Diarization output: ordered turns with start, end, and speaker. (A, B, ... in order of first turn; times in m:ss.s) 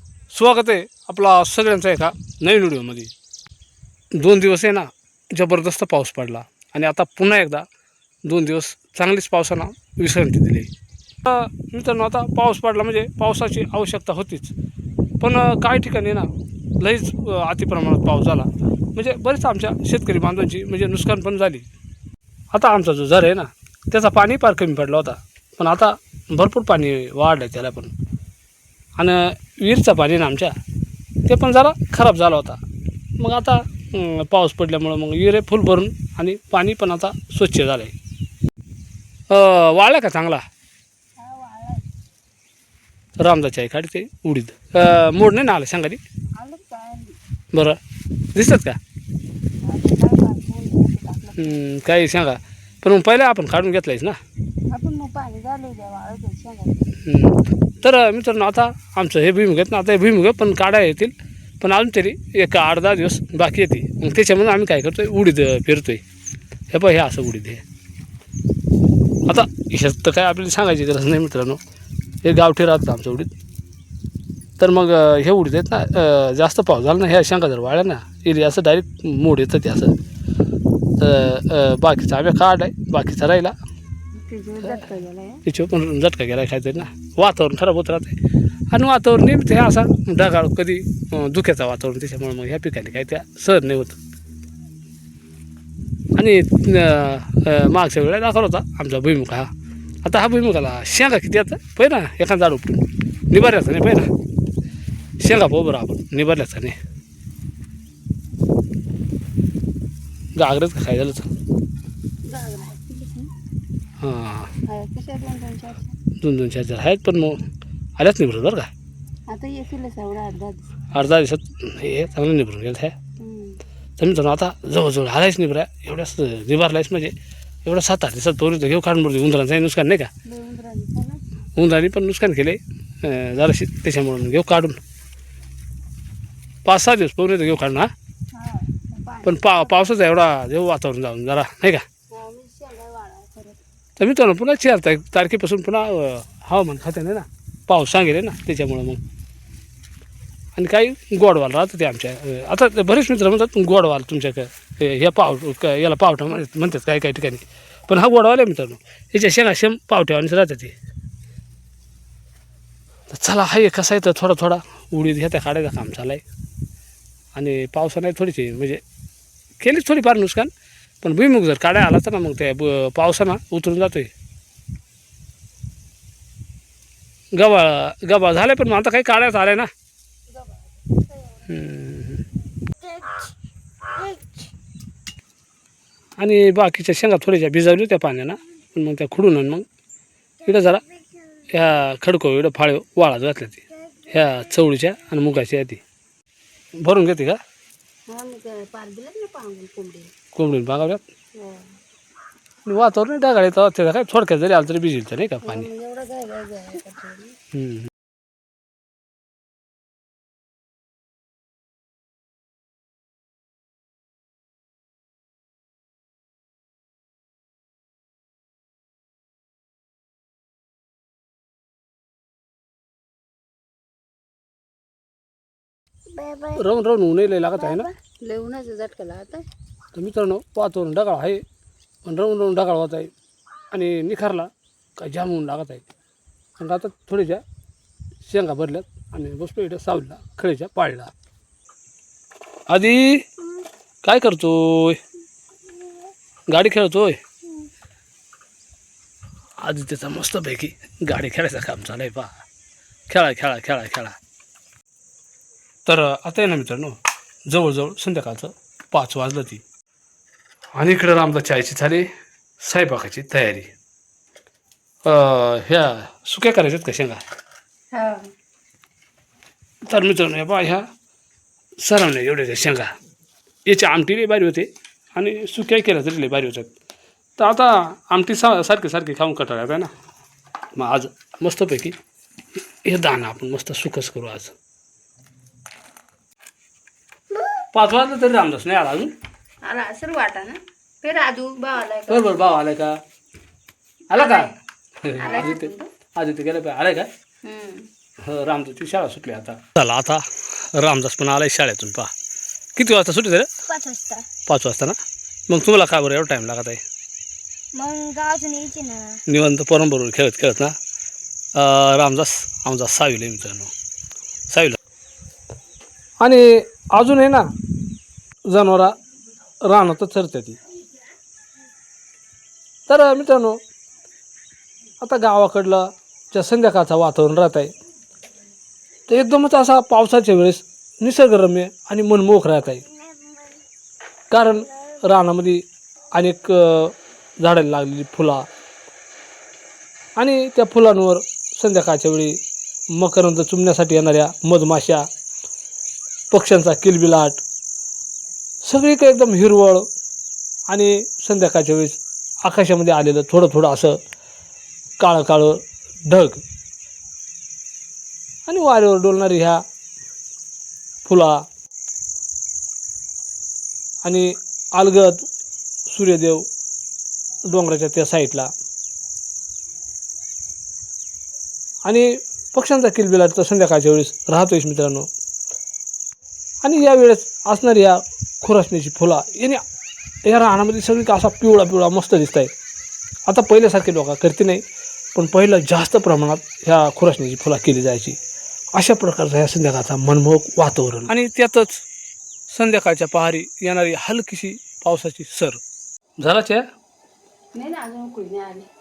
0:00.3-0:03.1 A
0:04.1-0:07.6 A
0:08.2-0:10.7 A
0:11.2-0:14.5 A
0:15.2-0:16.3 A
0:16.8-0:21.6 A
0:22.5-0:27.9 A
0:29.0-0:30.5 A
0:31.2-0:32.6 A
0:33.2-0:37.9 A
0:39.3-0:40.4 A
0:41.2-0:41.8 B
0:43.2-0:46.0 A
0:46.4-0:47.2 B
0:47.5-0:47.8 A
0:48.3-0:48.8 A
0:49.6-0:51.6 B
0:51.4-0:54.2 A
0:54.7-0:57.0 B
0:57.0-1:06.0 A
1:06.7-1:07.6 A
1:09.3-1:11.6 A
1:12.2-1:13.3 A
1:14.6-1:20.0 A
1:21.0-1:23.5 A
1:24.2-1:25.4 B
1:25.4-1:28.2 A
1:28.7-1:34.0 A
1:36.2-1:39.5 A
1:40.0-1:44.1 A
1:45.2-1:46.8 A
1:50.4-1:51.3 A
1:52.2-1:53.3 B
1:54.0-1:54.5 A
1:54.6-1:55.9 B
1:56.2-1:57.4 A
1:58.0-1:58.7 A
1:59.3-2:00.7 B
2:00.9-2:02.9 A
2:03.2-2:03.6 B
2:04.0-2:10.1 A
2:10.2-2:11.2 B
2:11.6-2:14.8 A
2:16.6-2:17.9 A
2:18.3-2:19.8 B
2:19.2-2:21.8 A
2:22.1-2:23.6 B
2:24.0-2:29.0 A
2:30.5-2:40.7 A
2:43.1-2:46.2 A
2:47.3-2:48.8 A
2:49.6-2:50.5 A
2:51.0-2:54.1 A
2:57.3-2:59.7 A
3:00.3-3:01.4 B
3:01.5-3:02.2 A
3:06.2-3:09.6 A
3:10.4-3:10.8 A
3:11.5-3:15.8 A
3:16.8-3:17.4 A
3:18.1-3:20.1 B
3:20.3-3:21.0 A
3:21.3-3:21.8 B
3:22.6-3:25.7 A
3:25.4-3:27.4 B
3:27.5-3:27.9 A
3:46.1-3:46.6 B
3:46.6-3:47.9 A
3:47.5-3:49.4 B
3:49.9-3:51.4 A
3:52.0-3:53.1 A
3:53.7-3:55.8 A
3:56.6-3:57.4 A
3:58.2-4:01.1 A
4:02.7-4:03.3 A
4:04.0-4:05.0 A
4:06.5-4:07.2 A
4:09.6-4:12.4 A
4:13.1-4:14.2 A
4:15.8-4:17.0 A
4:17.5-4:19.6 A
4:20.8-4:22.1 A
4:22.6-4:23.7 A
4:25.0-4:27.2 A
4:27.9-4:28.3 B
4:29.8-4:30.8 A
4:31.8-4:32.9 A
4:33.6-4:36.7 A
4:37.4-4:39.9 A
4:40.7-4:42.0 A
4:42.8-4:44.5 A
4:47.7-4:49.1 A
4:49.6-4:52.4 B
4:52.1-4:53.0 A
4:54.1-4:57.1 A
4:54.1-4:54.5 B
4:55.1-4:55.9 B
4:57.4-4:57.9 B
4:58.2-5:02.1 A
5:02.8-5:03.5 A
5:03.7-5:04.2 C
5:04.4-5:05.0 A
5:05.5-5:06.8 A
5:07.7-5:09.2 C
5:09.3-5:10.7 A
5:11.5-5:13.7 A
5:14.5-5:14.8 A
5:16.2-5:17.5 A
5:18.5-5:19.0 A
5:19.6-5:20.6 A
5:22.9-5:23.6 A
5:25.0-5:27.7 A
5:29.1-5:32.9 A
5:34.3-5:38.4 A
5:40.2-5:42.4 A
5:42.9-5:45.1 A
5:46.3-5:47.4 A
5:48.6-5:49.8 A
5:50.7-5:54.0 A
5:55.0-5:56.4 A
5:58.5-5:59.6 A
6:01.0-6:01.4 A
6:04.0-6:05.2 A
6:05.9-6:06.4 A
6:07.5-6:08.5 A
6:11.8-6:15.1 A
6:16.6-6:19.6 A
6:20.2-6:22.5 A
6:23.3-6:24.6 A
6:25.1-6:28.2 A
6:28.7-6:31.8 A
6:32.5-6:35.6 A
6:36.2-6:36.6 A
6:37.5-6:38.7 B